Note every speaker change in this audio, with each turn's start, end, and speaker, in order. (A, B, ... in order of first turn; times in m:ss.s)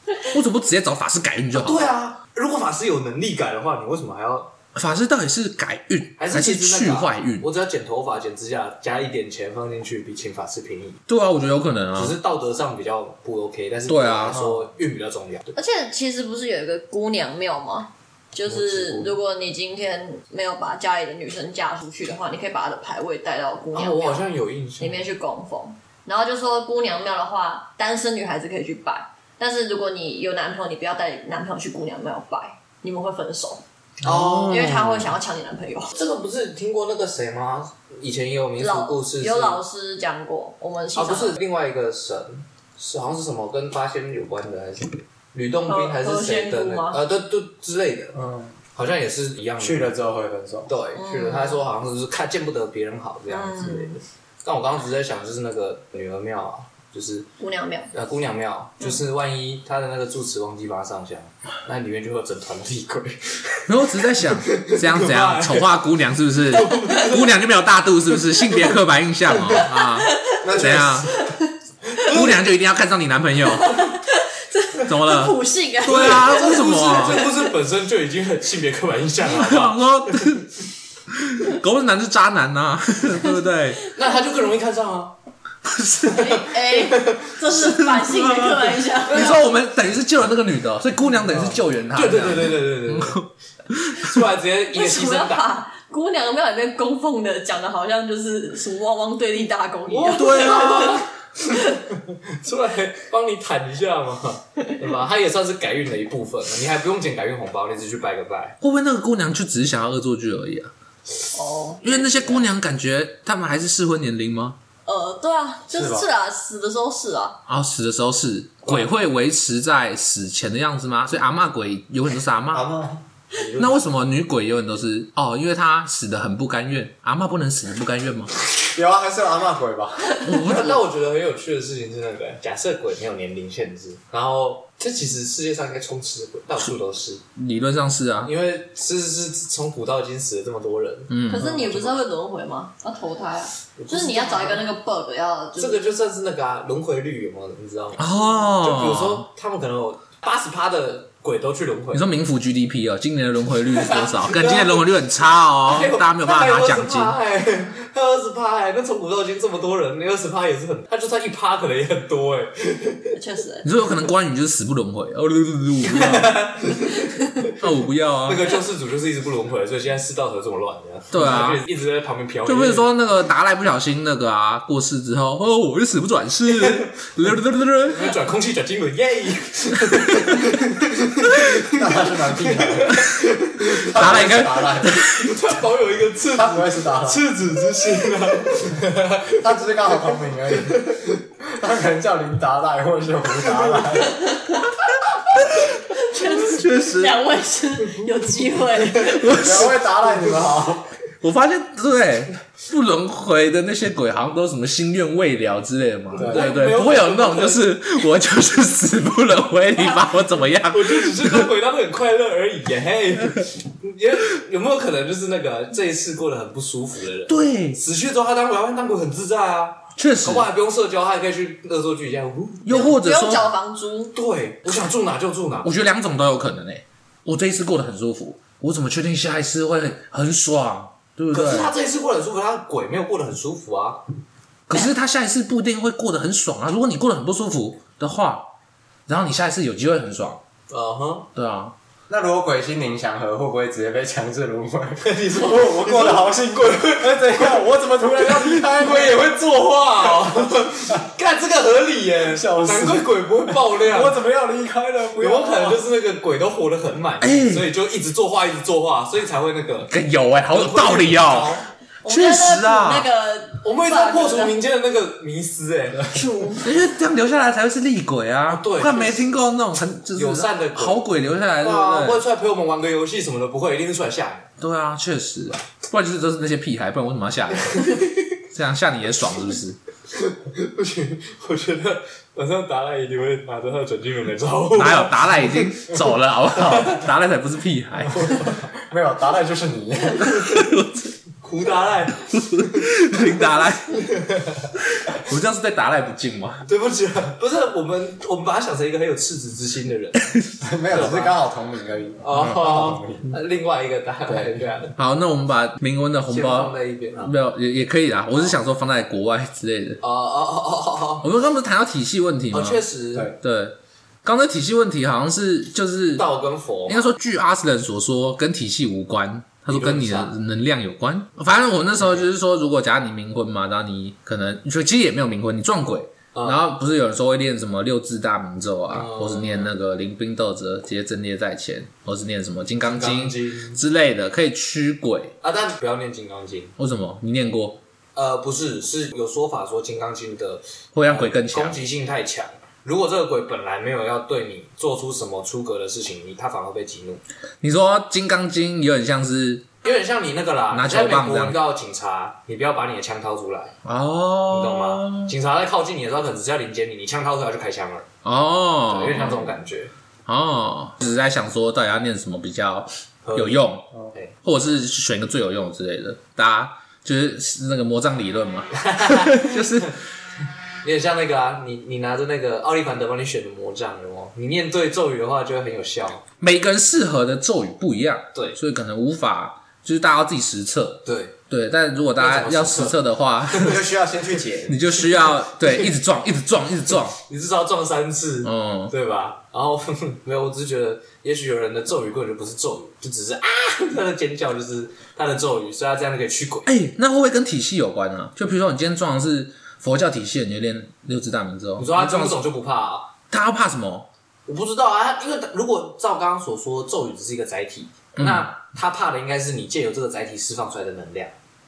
0:00.2-0:01.9 A
0:01.5-0:04.5 B
0:04.7-0:07.5 A
0:06.2-0:11.0 B
0:11.1-0:12.2 A
0:11.9-0:15.6 B
0:13.9-0:14.6 A
0:15.6-0:24.3 C
0:18.4-0:19.1 B
0:23.7-0:25.0 B
0:24.8-0:33.6 C
0:34.0-0:34.6 B
0:34.0-0:35.1 A
0:34.4-0:36.0 C
0:35.9-0:39.6 B
0:38.6-0:41.4 C
0:41.0-0:48.2 B
0:45.7-0:47.0 C
0:48.1-0:48.5 D
0:48.7-0:49.9 B
0:49.6-0:50.7 D
0:50.7-0:57.3 B
0:50.9-0:51.6 C
0:53.3-0:54.0 C
0:57.4-0:57.9 C
0:57.9-1:05.7 B
1:03.7-1:11.1 A
1:06.5-1:07.2 B
1:09.6-1:11.4 C
1:10.4-1:11.0 D
1:12.0-1:13.8 A
1:13.6-1:17.5 C
1:14.8-1:17.3 A
1:15.8-1:20.3 B
1:19.3-1:20.5 A
1:21.1-1:23.8 A
1:23.9-1:25.1 B
1:25.6-1:26.4 A
1:26.0-1:29.4 C
1:26.2-1:27.3 B
1:27.5-1:34.1 A
1:29.0-1:29.4 B
1:31.9-1:33.2 B
1:34.0-1:35.4 B
1:34.7-1:41.8 C
1:39.9-1:41.8 B
1:40.1-1:41.0 A
1:42.3-1:48.6 B
1:48.6-1:50.7 A
1:51.3-1:52.4 C
1:51.8-1:54.6 A
1:54.8-1:57.4 C
1:55.7-1:56.1 D
1:57.5-2:02.7 A
2:02.5-2:03.0 D
2:03.6-2:08.3 A
2:08.7-2:10.4 D
2:10.2-2:10.8 A
2:10.4-2:17.2 B
2:17.4-2:18.3 A
2:18.2-2:22.0 B
2:21.1-2:21.6 A
2:21.3-2:25.9 C
2:23.8-2:24.6 B
2:25.6-2:32.0 B
2:28.0-2:29.3 A
2:31.9-2:37.2 A
2:33.7-2:34.8 B
2:35.6-2:43.2 B
2:43.1-2:43.6 C
2:43.6-2:46.4 A
2:45.8-2:47.5 B
2:47.6-2:48.4 A
2:48.2-2:52.9 B
2:51.1-2:51.6 A
2:52.4-2:58.1 A
2:56.5-2:56.9 B
2:57.8-3:04.0 B
3:01.6-3:05.0 D
3:03.9-3:05.3 A
3:05.1-3:09.4 B
3:06.3-3:07.3 D
3:09.3-3:14.2 D
3:15.9-3:19.7 C
3:16.1-3:17.2 A
3:19.0-3:19.8 A
3:19.2-3:20.9 D
3:21.2-3:31.5 A
3:26.1-3:26.5 D
3:26.1-3:27.7 B
3:30.7-3:42.9 B
3:37.3-3:37.8 A
3:40.0-3:40.5 A
3:42.6-3:43.5 A
3:42.7-3:44.1 C
3:44.1-3:45.7 B
3:45.6-3:51.7 A
3:51.3-3:54.0 B
3:54.7-3:58.5 A
3:59.1-4:00.4 A
4:00.7-4:01.3 B
4:01.3-4:01.7 A
4:02.1-4:09.2 D
4:05.0-4:14.2 B
4:10.0-4:11.0 D
4:12.2-4:15.8 D
4:15.2-4:19.9 B
4:17.2-4:17.7 A
4:19.9-4:23.1 A
4:20.5-4:21.7 B
4:22.0-4:24.5 C
4:23.6-4:26.3 B
4:26.1-4:26.7 C
4:26.6-4:32.2 A
4:28.5-4:29.2 B
4:30.1-4:31.1 B
4:31.6-4:34.5 B
4:34.6-4:38.0 A
4:37.7-4:38.0 B
4:38.5-4:39.8 A
4:40.1-4:45.9 B
4:44.7-4:48.3 A
4:46.6-4:47.0 B
4:48.1-4:48.7 B
4:48.4-4:50.5 D
4:50.2-4:51.1 A
4:51.4-4:53.3 B
4:52.3-4:54.1 A
4:54.1-4:54.6 B
4:54.9-4:56.6 A
4:56.6-5:01.4 B
5:00.6-5:03.3 D
5:02.2-5:04.9 B
5:04.9-5:10.0 A
5:06.3-5:07.3 B
5:10.0-5:11.2 B
5:11.2-5:16.2 A
5:12.5-5:13.3 B
5:16.2-5:17.1 B
5:16.9-5:35.3 A
5:19.7-5:20.3 B
5:26.3-5:26.6 B
5:28.9-5:29.7 B
5:32.8-5:33.8 B
5:35.4-5:36.8 B
5:36.8-5:37.8 A
5:38.2-5:47.2 B
5:40.9-5:41.8 A
5:47.6-5:49.7 A
5:49.8-5:53.7 B
5:50.7-5:51.6 A
5:53.8-5:55.3 A
5:54.5-5:58.1 B
5:58.2-5:59.5 A
5:58.9-5:59.9 B
6:00.3-6:03.9 A
6:03.2-6:04.3 B
6:04.4-6:09.9 A
6:08.7-6:09.9 B
6:10.8-6:16.2 B
6:16.4-6:23.8 A
6:21.0-6:21.4 B
6:22.2-6:23.0 B
6:23.5-6:23.8 B
6:23.6-6:24.8 D
6:24.7-6:27.2 A
6:27.2-6:36.7 B
6:28.4-6:28.9 A
6:36.6-6:42.4 A
6:41.8-6:43.1 B
6:43.3-6:44.1 A
6:44.5-6:51.3 B
6:48.2-6:48.5 A